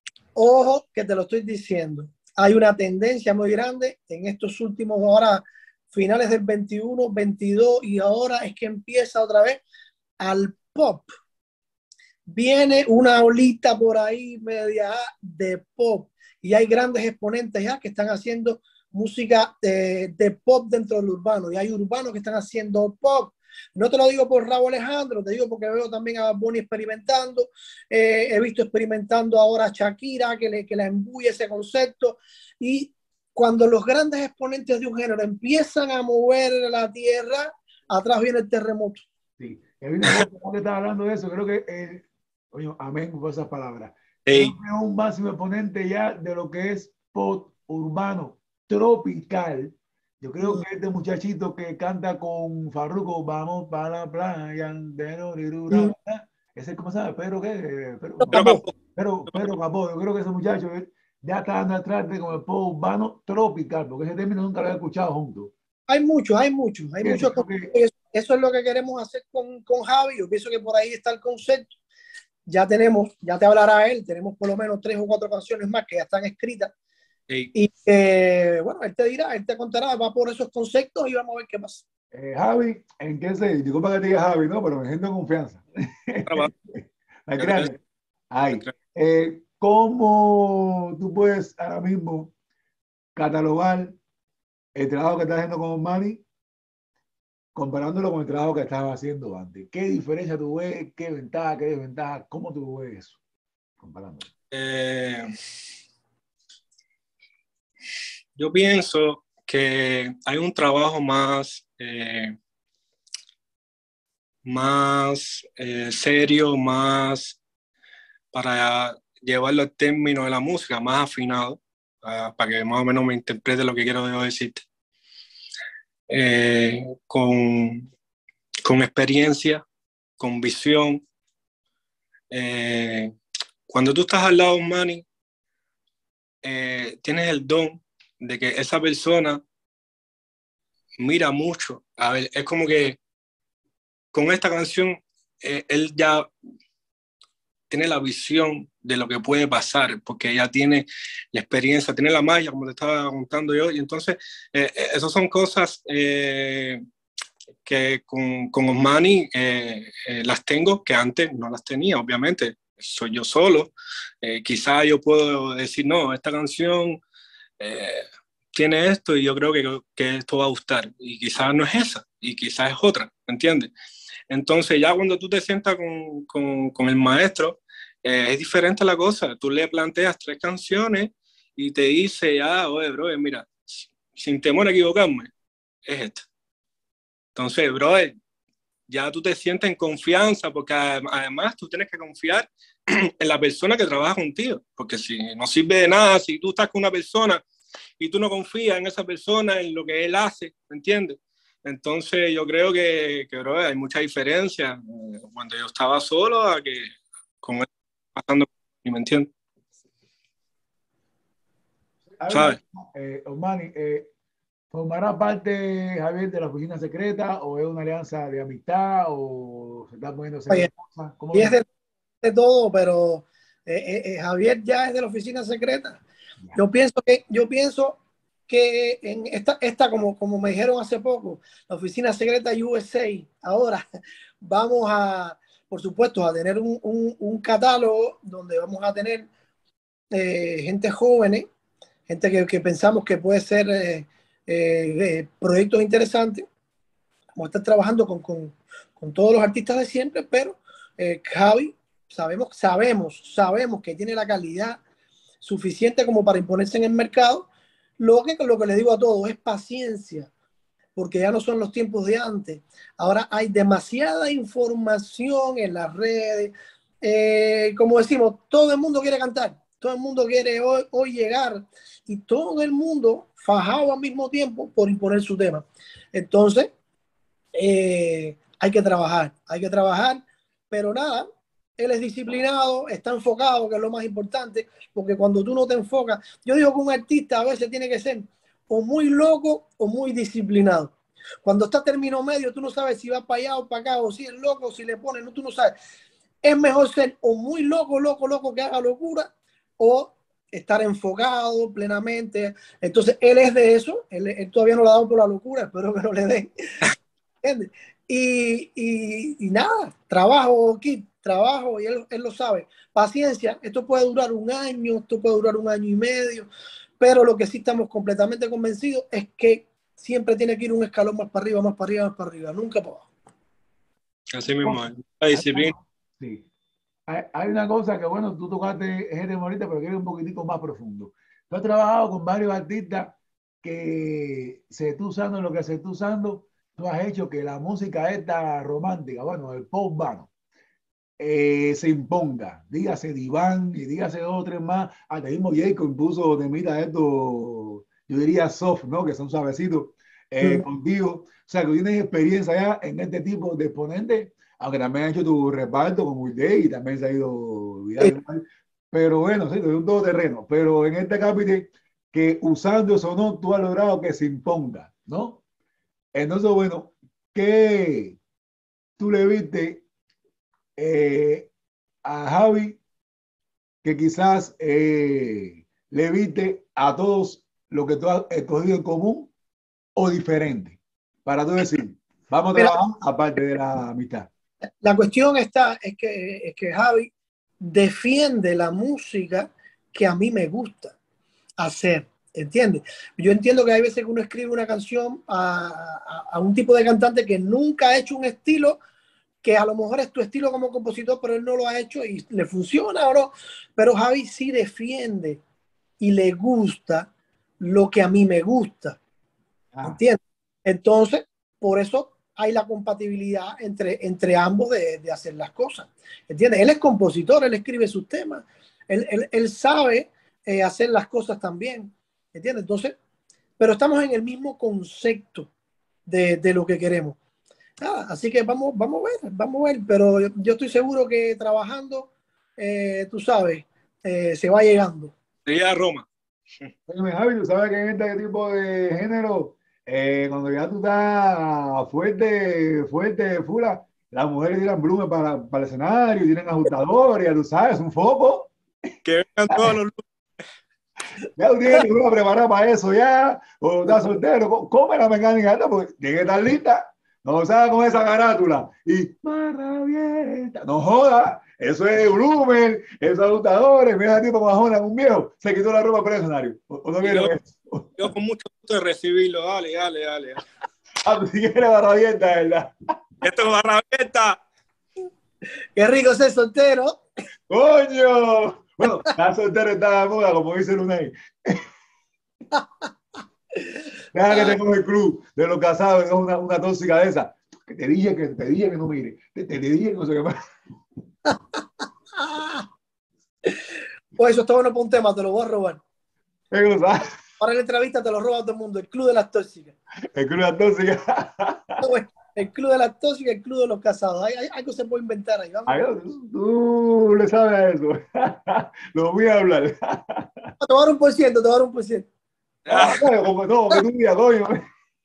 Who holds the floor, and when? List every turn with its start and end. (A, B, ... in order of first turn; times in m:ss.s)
0:00.4-0:09.6 A
0:10.2-0:11.1 A
0:12.3-0:39.1 A
0:39.4-1:05.5 B
0:44.3-0:44.5 C
0:58.2-0:58.6 A
0:58.3-0:58.7 C
1:05.9-1:11.7 A
1:07.0-1:07.7 B
1:12.5-1:16.7 A
1:17.5-1:21.8 A
1:22.1-1:27.8 B
1:26.3-1:26.5 C
1:27.4-1:27.7 C
1:28.3-1:32.3 B
1:33.2-1:34.0 B
1:34.8-1:36.2 B
1:37.6-1:43.2 B
1:43.8-1:44.3 B
1:44.5-1:45.3 C
1:48.4-1:52.4 C
1:54.4-1:57.4 C
1:58.3-2:04.6 C
2:06.1-2:07.9 C
2:08.6-2:09.6 C
2:10.2-2:11.0 C
2:12.3-2:13.1 C
2:13.7-2:15.1 C
2:16.4-2:19.4 C
2:21.0-2:23.0 C
2:24.1-2:26.3 C
2:27.7-2:36.8 C
2:37.6-2:47.0 C
2:47.6-2:53.7 C
2:54.3-3:05.3 C
3:05.8-3:06.3 C
3:07.4-3:08.2 C
3:08.9-3:17.4 C
3:18.0-3:26.9 C
3:27.4-3:29.3 C
3:32.2-3:34.1 B
3:32.3-3:32.6 C
3:34.7-3:41.6 B
3:41.3-3:41.6 A
3:42.2-3:46.0 A
3:46.6-3:53.8 A
3:54.4-3:59.3 A
4:00.1-4:01.5 A
4:02.1-4:06.4 A
4:07.4-4:14.8 A
4:15.4-4:17.5 A
4:18.0-4:20.3 A
4:21.0-4:36.7 A
4:37.6-4:50.9 A
4:51.4-4:55.8 A
4:56.4-5:06.5 A
5:07.4-5:16.5 A
5:17.0-5:23.1 A
5:24.3-5:25.7 C
5:25.3-5:26.4 B
5:27.1-5:40.3 B
5:41.2-6:05.4 B
6:06.2-6:08.2 B
6:09.0-6:09.8 B
6:10.8-6:11.5 B
6:12.0-6:12.8 B
6:13.8-6:19.3 B
6:20.0-6:24.3 B
6:24.8-6:31.0 A
6:31.6-6:38.8 A
6:39.4-6:45.4 A
6:46.0-6:49.0 A
6:49.7-6:50.0 B
6:49.8-7:03.0 A
7:03.6-7:05.5 A
7:06.1-7:07.2 A
7:07.8-7:15.1 A
7:15.5-7:16.1 C
7:16.9-7:28.5 B
7:29.0-7:30.0 C
7:31.4-7:48.1 B
7:47.0-7:47.3 C
7:48.0-7:50.4 C
7:51.0-7:52.7 B
7:53.2-7:54.4 C
7:55.8-7:57.0 A
7:57.5-8:01.6 B
8:02.5-8:02.8 A
8:04.1-8:10.4 B
8:12.2-8:12.7 A
8:14.2-8:15.8 A
8:16.5-8:17.2 B
8:17.4-8:19.7 A
8:20.1-8:21.8 B
8:21.8-8:25.8 A
8:25.7-8:30.5 B
8:30.6-8:32.1 A
8:32.7-8:33.1 C
8:32.7-8:34.6 B